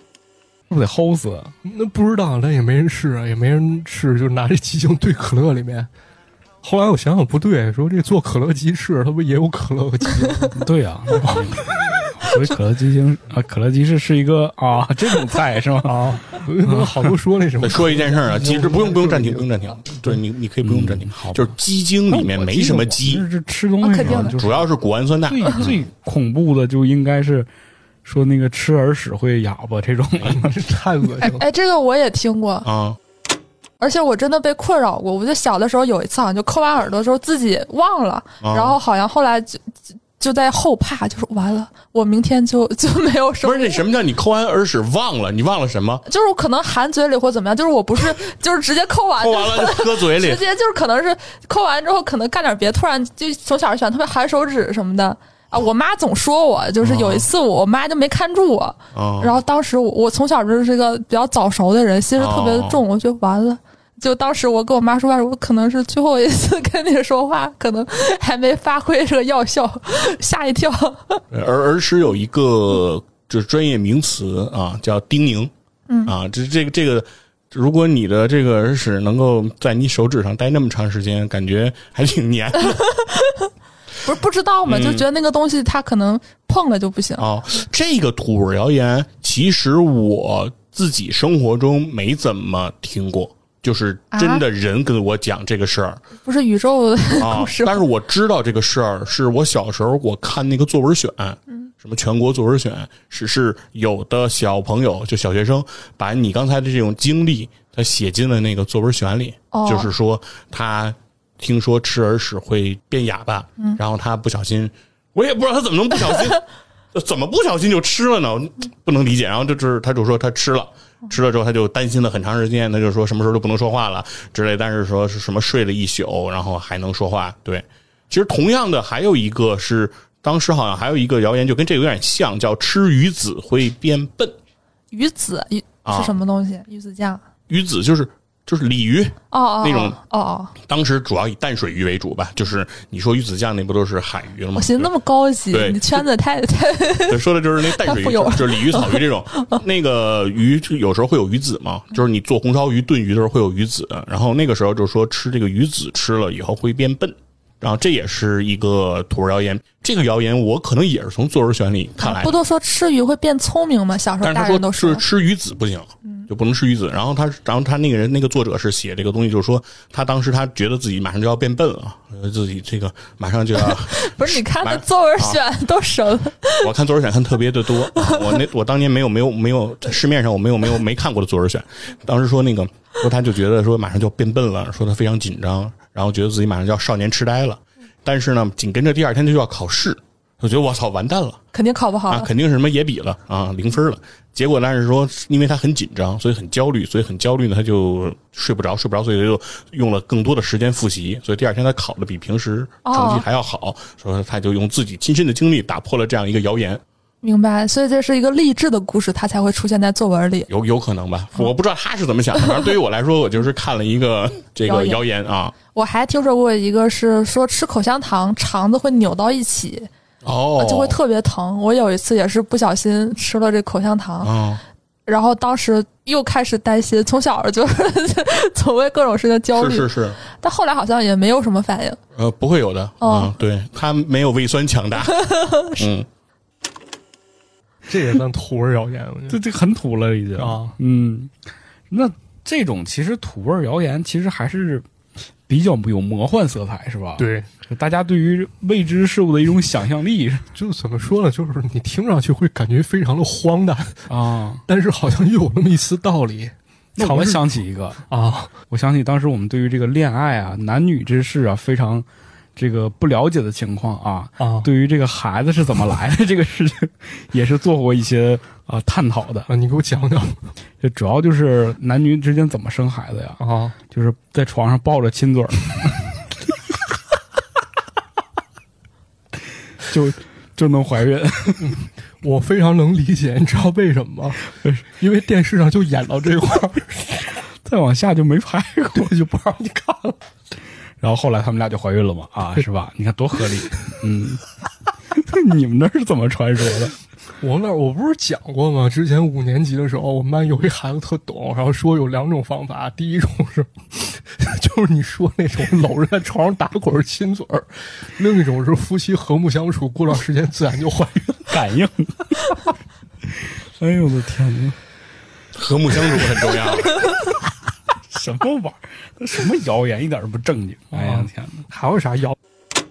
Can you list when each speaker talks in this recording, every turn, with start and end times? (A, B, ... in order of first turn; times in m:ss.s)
0:00.7-0:01.5 A
0:01.6-0:05.9 B
0:06.6-0:10.6 B
0:10.5-0:17.1 A
0:11.1-0:11.6 B
0:15.8-0:19.6 B
0:17.6-0:23.2 C
0:20.6-0:21.6 A
0:22.1-0:24.7 A
0:23.8-0:24.4 D
0:24.0-0:25.8 C
0:25.3-0:27.5 A
0:28.0-0:30.5 A
0:30.2-0:31.4 B
0:31.2-0:32.7 D
0:32.6-0:33.0 C
0:33.8-0:43.8 D
0:38.4-0:38.8 C
0:43.4-0:46.0 C
0:46.0-1:11.2 D
0:49.2-0:50.4 C
0:56.8-0:57.3 C
0:58.9-0:59.4 C
1:02.2-1:02.8 C
1:11.3-1:15.5 C
1:15.9-1:16.1 D
1:16.0-1:22.8 C
1:22.7-1:23.5 D
1:24.0-1:27.2 D
1:24.6-1:25.0 C
1:27.2-1:36.0 C
1:34.1-1:34.4 D
1:36.2-1:37.8 D
1:37.2-1:56.4 C
1:49.5-1:49.9 D
1:56.9-2:14.4 C
2:14.9-2:17.2 D
2:15.8-2:16.1 C
2:17.5-2:20.0 C
2:19.3-2:20.5 D
2:20.6-2:24.9 C
2:24.5-2:29.6 D
2:25.5-2:26.0 C
2:27.1-2:42.4 C
2:42.0-2:45.0 D
2:44.2-2:55.4 C
2:53.6-2:56.7 D
2:56.6-3:11.4 C
2:57.9-2:58.4 D
3:11.5-3:12.3 D
3:12.1-3:26.8 C
3:22.8-3:23.2 D
3:27.2-3:30.5 D
3:30.5-3:35.5 C
3:34.6-3:35.0 D
3:35.7-3:39.9 D
3:40.2-3:41.0 C
3:40.6-3:44.3 D
3:44.2-3:44.6 C
3:45.1-3:52.0 D
3:49.5-3:50.2 C
3:52.2-3:55.2 C
3:53.0-3:53.3 D
3:55.1-3:55.9 D
3:55.8-3:56.1 C
3:57.9-3:59.4 B
3:59.3-4:01.3 A
4:00.4-4:00.8 B
4:01.9-4:04.8 A
4:05.5-4:10.5 A
4:07.2-4:07.5 B
4:10.5-4:14.1 B
4:14.1-4:14.6 A
4:14.7-4:17.6 B
4:17.0-4:18.0 A
4:18.1-4:18.5 B
4:18.7-4:29.5 A
4:24.4-4:24.7 B
4:29.5-4:30.4 B
4:30.8-4:36.2 A
4:33.4-4:33.8 B
4:39.9-4:41.8 A
4:41.6-4:47.3 B
4:47.6-4:49.1 A
4:48.9-4:50.2 B
4:51.0-4:54.4 A
4:55.1-4:56.9 A
4:57.4-5:11.5 B
5:11.5-5:12.6 A
5:13.3-5:14.8 A
5:15.5-5:17.0 C
5:18.1-5:21.6 A
5:20.9-5:22.4 B